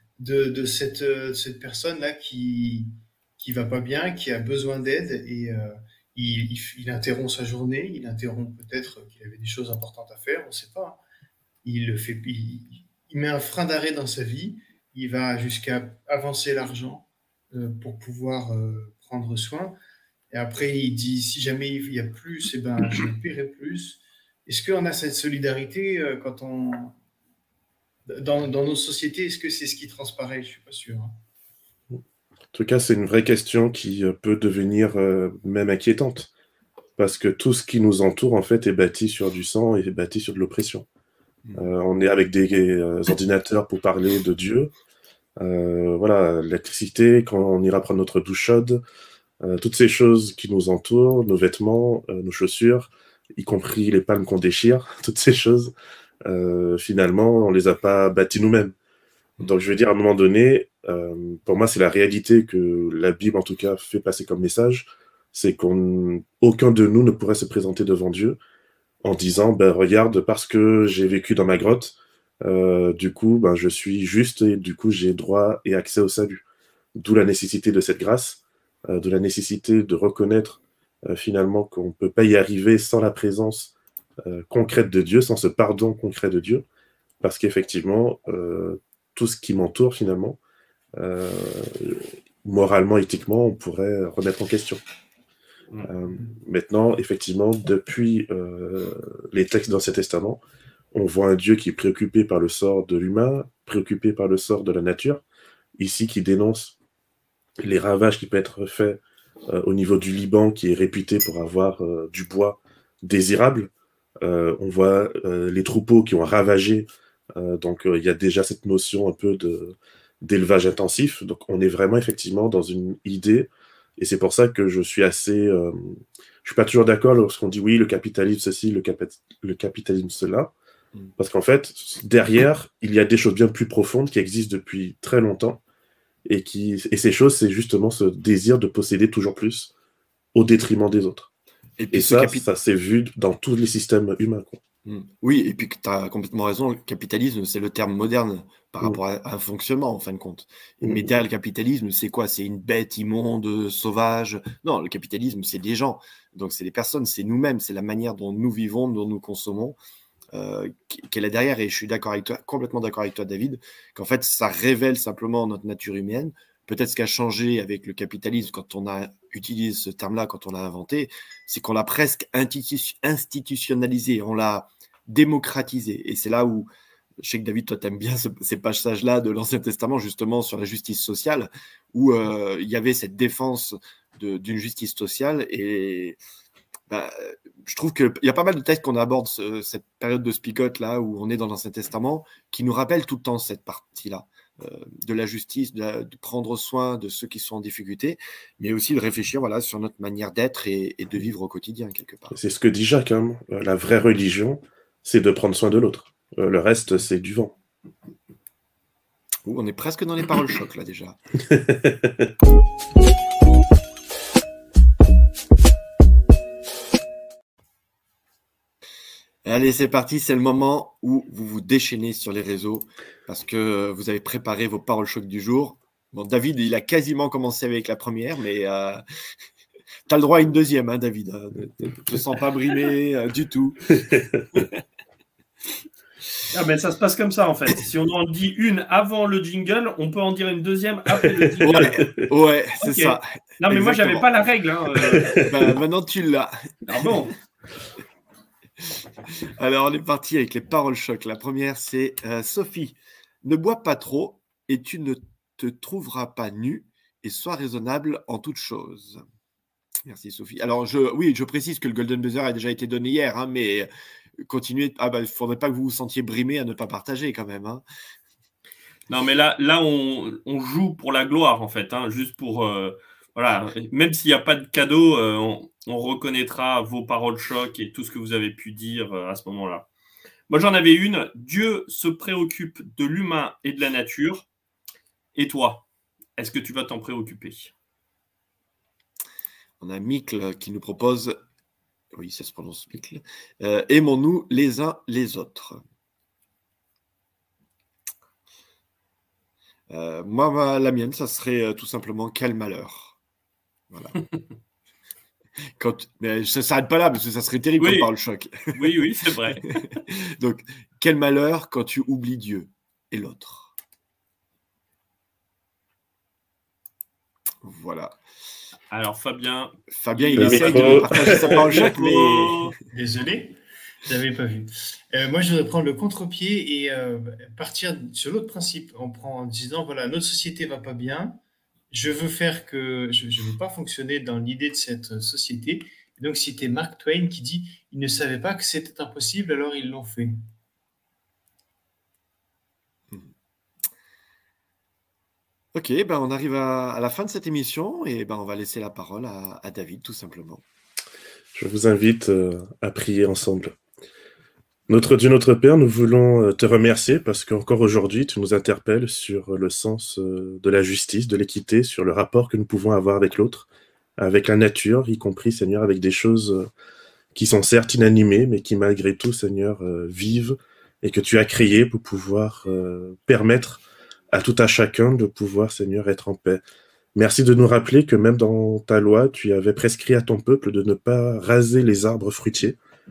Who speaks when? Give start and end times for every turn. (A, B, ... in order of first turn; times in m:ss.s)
0:00.2-0:11.0 A
0:11.6-0:19.8 A
0:20.3-0:27.0 A
0:28.1-0:31.1 A
0:32.5-0:36.3 B
0:37.0-0:40.8 B
0:41.4-0:41.7 C
0:41.6-0:44.7 B
0:45.4-0:48.8 B
0:49.4-0:55.7 B
0:56.2-0:58.7 B
0:59.4-1:08.4 B
1:09.0-1:16.4 B
1:17.0-1:23.7 B
1:24.2-1:26.6 B
1:27.2-1:30.4 B
1:31.0-1:34.8 B
1:35.8-1:40.4 B
1:40.9-1:45.2 B
1:45.8-1:46.7 B
1:47.6-1:53.7 B
1:54.2-2:10.5 B
2:11.2-2:15.6 B
2:16.2-2:19.7 B
2:20.3-2:21.3 B
2:21.8-2:22.4 C
2:21.9-2:24.6 B
2:24.8-2:39.8 C
2:30.8-2:31.1 B
2:40.3-2:56.7 C
2:57.2-3:06.2 C
3:06.9-3:22.4 C
3:22.3-3:27.5 B
3:29.4-3:31.2 C
3:31.4-3:32.3 B
3:39.4-3:49.0 C
3:50.1-3:53.9 C
3:54.1-3:54.5 B
3:56.5-4:02.1 D
4:01.6-4:04.3 C
4:01.7-4:02.3 B
4:02.8-4:05.8 D
4:05.2-4:07.1 C
4:06.9-4:07.3 D
4:08.8-4:19.2 C
4:20.0-4:23.9 C
4:24.4-4:27.8 C
4:29.1-4:39.9 D
4:40.5-4:44.5 D
4:45.3-4:45.8 D
4:46.4-4:47.7 D
4:49.8-4:51.4 C
4:52.1-4:55.8 C
4:59.9-5:03.2 C
5:03.9-5:04.1 C
5:05.8-5:08.9 C
5:07.8-5:08.1 D
5:08.7-5:09.7 D
5:09.6-5:13.7 C
5:17.6-5:18.2 C
5:18.9-5:22.7 D
5:19.9-5:22.8 C
5:20.4-5:21.7 B
5:22.9-5:31.4 A
5:31.9-5:40.3 A
5:45.7-5:50.6 C
5:51.5-5:53.7 B
5:54.9-6:03.7 B
6:04.2-6:06.7 B
6:07.3-6:16.6 B
6:17.1-6:22.8 B